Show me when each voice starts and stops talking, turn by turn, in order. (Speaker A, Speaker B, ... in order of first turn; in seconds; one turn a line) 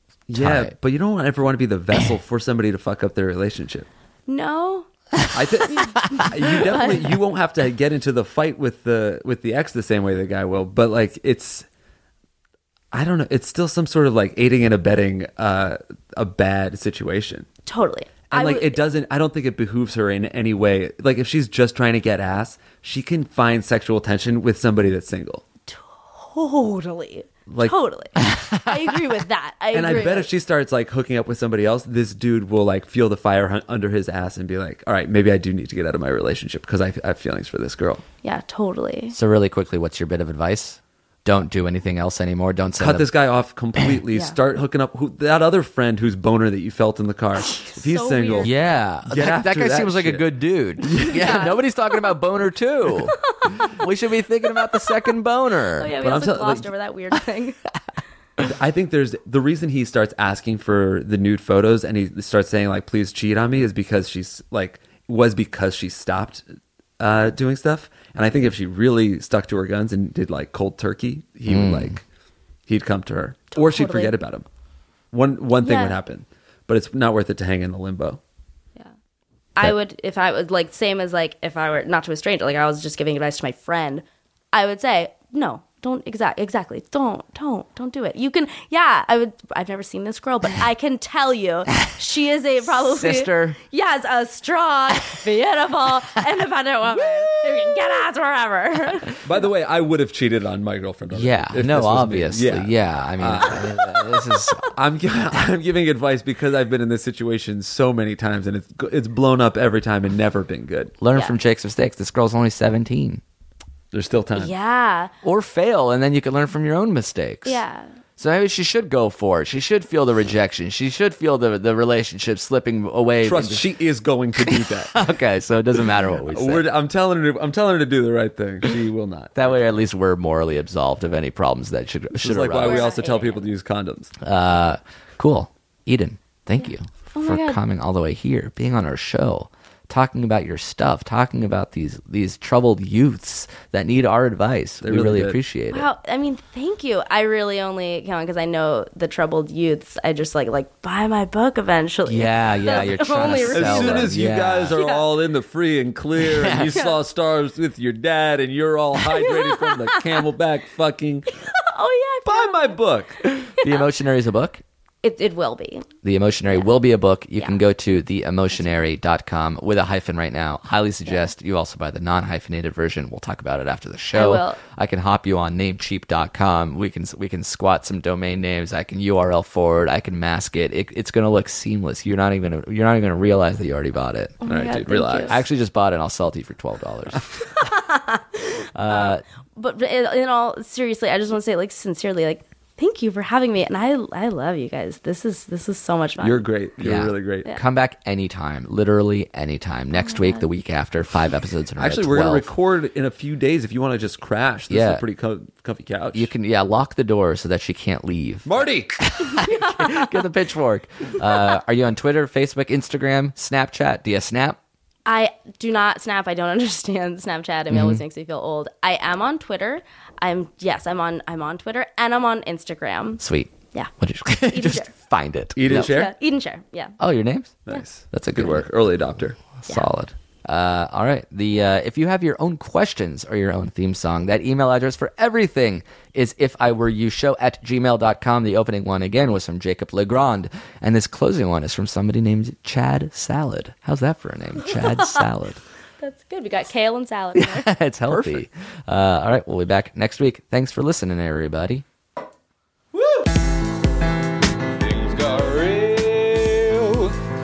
Speaker A: 0.3-3.9
Speaker B: 0.3-0.7
Speaker C: 4.3-4.9
Speaker A: 5.3-11.7
Speaker C: 5.6-7.1
Speaker A: 12.9-17.5
Speaker C: 17.7-18.8
Speaker A: 18.3-25.4
Speaker C: 25.7-30.3
Speaker A: 27.5-27.8
Speaker B: 28.2-28.9
Speaker A: 29.7-38.0
Speaker C: 38.2-39.2
Speaker B: 39.1-43.1
Speaker A: 42.8-50.3
Speaker C: 47.5-48.5
Speaker B: 48.4-55.9
Speaker A: 50.8-51.4
Speaker C: 51.1-51.6
Speaker C: 53.3-53.6
Speaker C: 54.6-55.0
Speaker C: 55.8-57.6
Speaker A: 56.0-56.7
Speaker A: 58.4-66.4
Speaker A: 67.0-72.0
Speaker B: 71.5-72.0
Speaker A: 72.7-74.5
Speaker C: 73.5-74.1
Speaker A: 75.1-78.2
Speaker C: 75.6-76.0
Speaker C: 79.6-99.2
Speaker B: 92.7-93.6
Speaker A: 99.2-111.0
Speaker B: 101.1-104.7
Speaker B: 111.0-113.2
Speaker A: 113.9-114.5
Speaker C: 114.3-115.1
Speaker B: 115.2-117.6
Speaker C: 117.5-117.9
Speaker B: 118.2-123.6
Speaker A: 123.2-125.0
Speaker B: 124.5-126.7
Speaker A: 126.3-129.5
Speaker B: 129.3-132.9
Speaker A: 132.1-134.1
Speaker C: 132.6-133.5
Speaker B: 134.2-145.9
Speaker C: 136.6-137.6
Speaker A: 144.8-145.4
Speaker C: 145.7-154.1
Speaker B: 152.1-154.8
Speaker A: 153.5-161.3
Speaker C: 154.8-155.0
Speaker B: 156.3-156.8
Speaker C: 159.0-160.2
Speaker C: 161.4-162.8
Speaker A: 162.3-163.2
Speaker B: 163.4-164.6
Speaker C: 163.6-163.8
Speaker C: 165.0-165.9
Speaker B: 166.0-187.3
Speaker C: 174.1-174.6
Speaker C: 184.4-185.4
Speaker A: 184.5-185.2
Speaker C: 187.6-196.4
Speaker B: 188.8-189.2
Speaker A: 196.2-197.5
Speaker B: 196.8-202.5
Speaker C: 200.1-200.4
Speaker A: 201.8-206.3
Speaker B: 204.7-205.0
Speaker B: 206.1-214.6
Speaker A: 208.4-209.0
Speaker C: 209.3-210.2
Speaker C: 215.1-223.2
Speaker B: 217.7-218.0
Speaker B: 223.2-225.9
Speaker C: 224.5-224.9
Speaker A: 225.6-226.1
Speaker C: 225.7-227.0
Speaker B: 227.0-228.6
Speaker A: 227.7-230.2
Speaker B: 230.4-245.6
Speaker C: 244.7-245.2
Speaker C: 246.0-247.7
Speaker B: 247.3-251.8
Speaker D: 252.9-253.3
Speaker D: 254.8-257.2